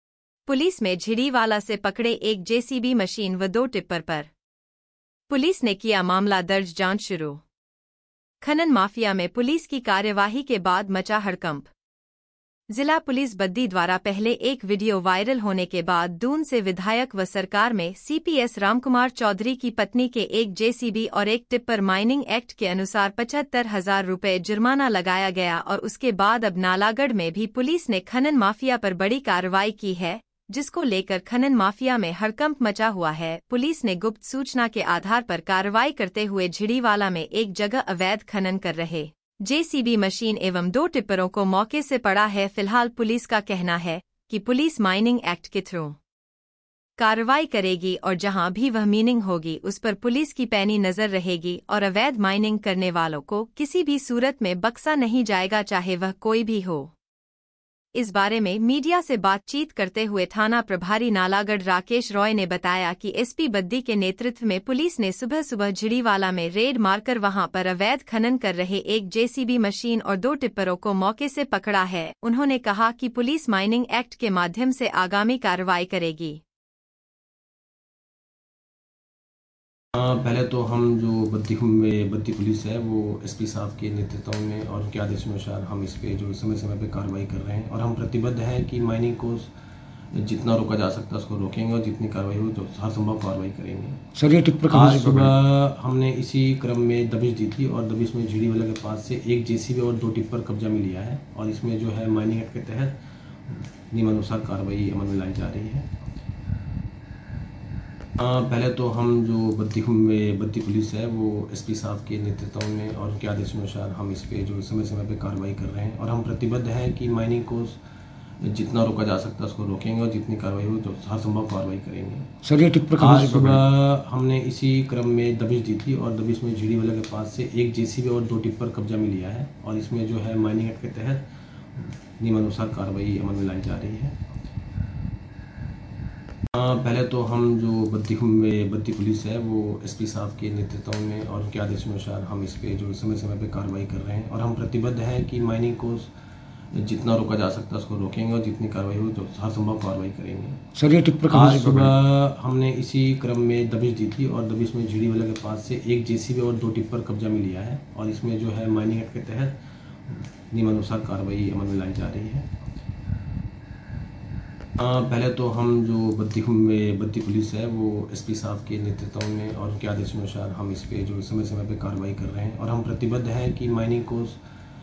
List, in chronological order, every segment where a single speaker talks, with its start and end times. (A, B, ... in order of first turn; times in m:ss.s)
0:00.5-0:04.3 A
0:05.3-0:07.4 A
0:08.4-0:11.7 A
0:12.7-0:46.0 A
0:47.0-0:56.9 A
0:58.0-1:16.4 A
1:20.0-1:29.5 B
1:30.1-1:34.0 B
1:34.2-1:35.3 C
1:34.7-1:43.0 B
1:43.5-1:45.9 B
1:48.2-1:57.8 B
1:58.4-2:02.3 B
2:02.4-2:03.6 C
2:03.0-2:14.2 B
2:16.5-2:26.1 B
2:26.7-2:30.6 B
2:30.8-2:31.9 C
2:31.3-2:42.5 B
2:44.8-2:54.4 B